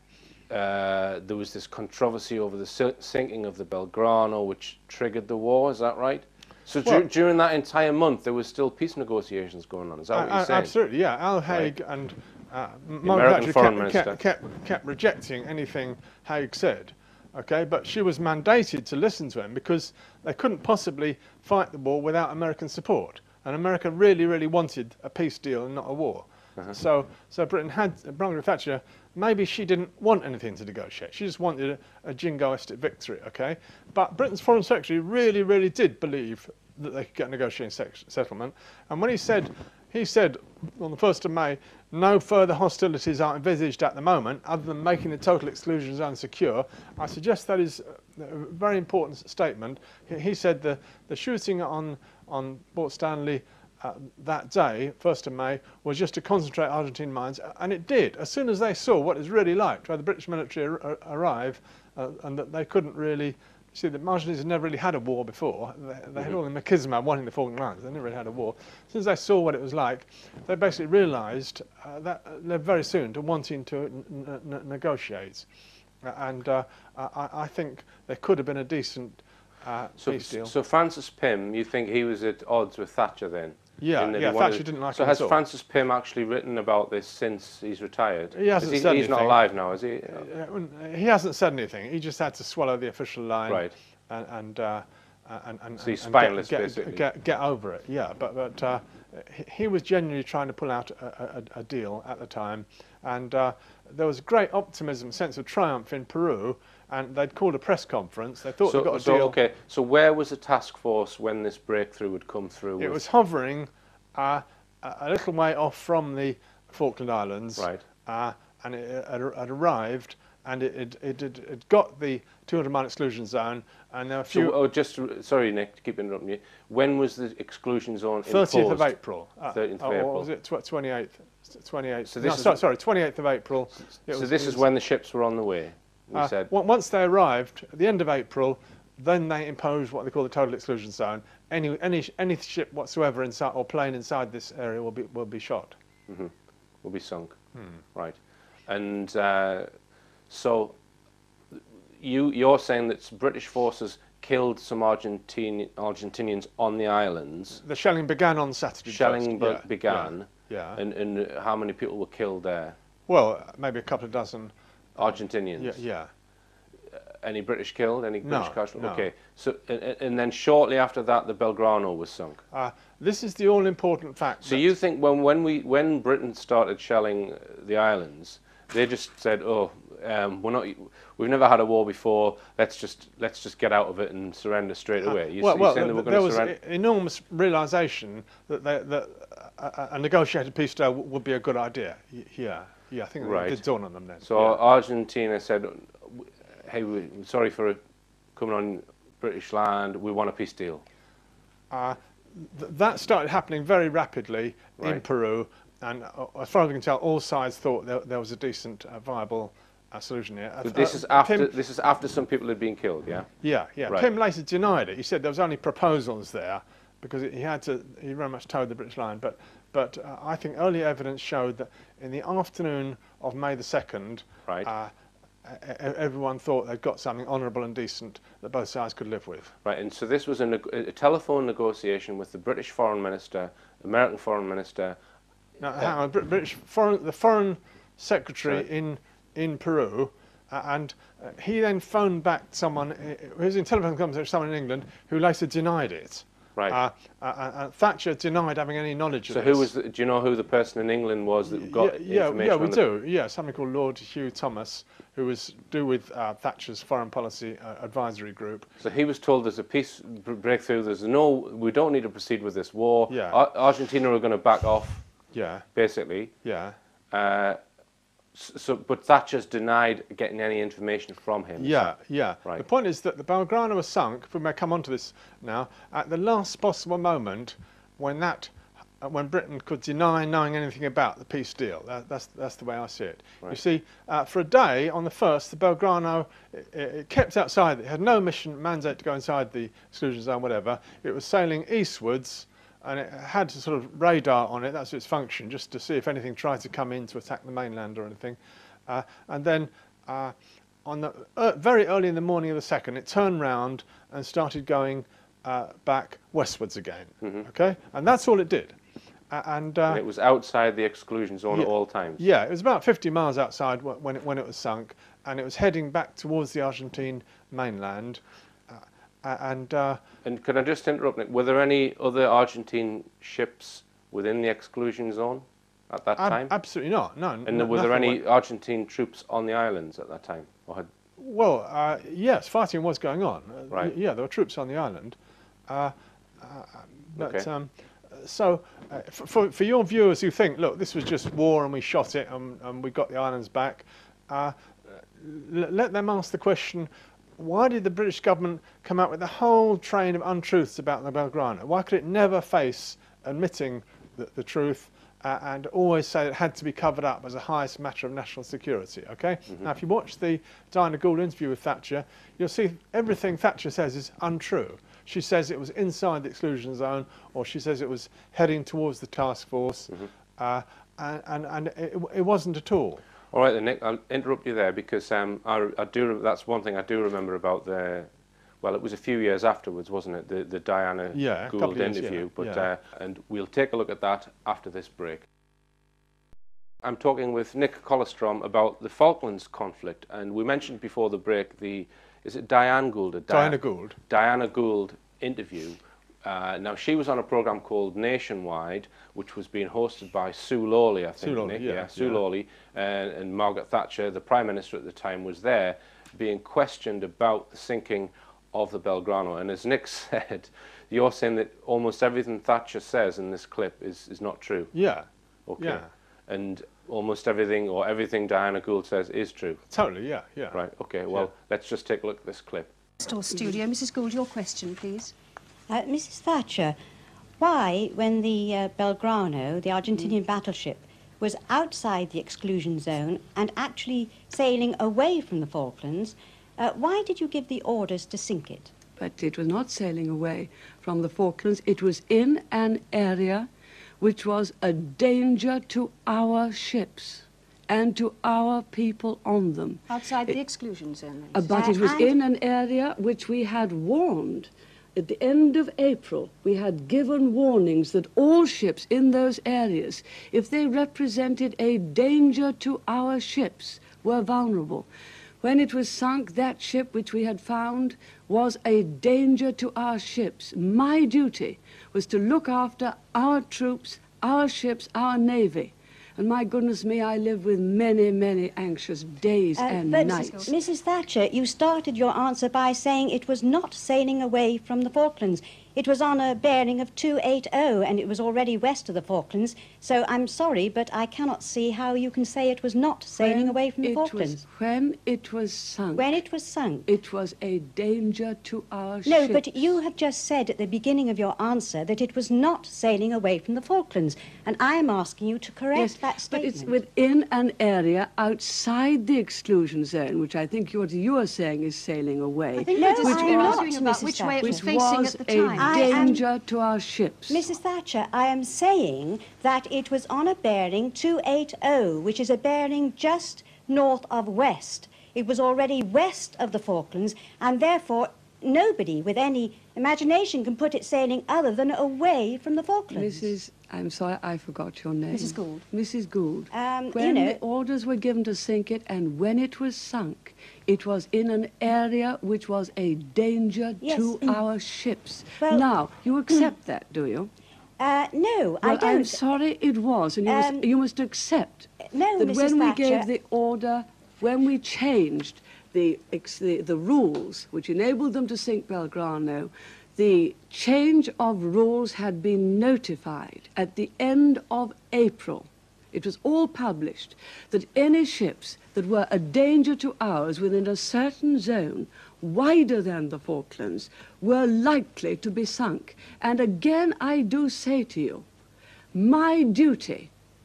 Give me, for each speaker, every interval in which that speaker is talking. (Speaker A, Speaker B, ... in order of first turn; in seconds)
Speaker A: 0.5-10.7, 13.0-14.2, 80.0-90.2, 93.5-93.7, 95.8-97.0, 108.6-113.0, 117.6-117.8, 124.3-128.9, 129.5-130.3, 132.1-132.6, 134.1-136.5, 146.1-146.3, 146.8-147.4, 147.9-149.7, 150.3-150.8, 151.5-157.6, 158.9-162.8, 165.0-165.8, 166.9-172.4, 174.4-186.5, 193.2-193.6, 194.2-197.8, 198.3-200.8, 210.6-213.3, 229.6-235.0, 249.3-252.8, 258.8-265.0, 265.7-266.3, 267.1-267.6, 268.3-272.6, 307.2-307.5, 309.9-312.2, 320.2-326.5, 327.4-330.9, 337.2-337.5, 373.3-378.1, 378.6-385.2, 386.8-414.7, 415.5-419.6, 420.5-422.7
Speaker B: 10.1-75.5, 76.0-80.5, 83.8-85.4, 88.3-89.4, 90.1-109.4, 112.8-124.6, 128.2-134.7, 136.1-145.8, 157.6-160.8, 163.1-166.1, 168.2-169.1, 172.5-174.7, 185.0-194.6, 201.7-211.5, 213.4-224.9, 225.4-229.5, 235.6-249.7, 251.5-258.7, 263.1-263.4, 265.3-265.6, 266.4-266.8, 271.6-308.8, 309.3-310.0, 311.5-320.0, 326.2-328.2, 331.2-335.2, 335.7-373.0, 381.1-382.7, 393.3-394.0, 401.2-402.2, 414.7-415.1, 415.6-415.9, 419.7-420.6
Speaker C: 423.0-425.1, 449.9-451.8, 479.9-480.6, 512.7-516.2, 535.1-535.6
Speaker D: 425.7-426.8, 427.4-438.7, 451.5-452.1, 479.6-494.4, 495.9-496.9, 499.1-506.8, 512.5-514.8, 515.6-516.2, 517.3-533.3, 536.5-537.4, 543.8-544.4, 547.8-549.2, 550.3-550.6, 551.9-553.0
Speaker E: 439.0-443.5, 444.0-450.4, 451.3-464.9, 465.4-480.5, 493.2-496.2, 496.9-499.4, 505.7-513.7, 514.4-517.5, 532.9-547.3, 548.6-578.2, 578.9-580.1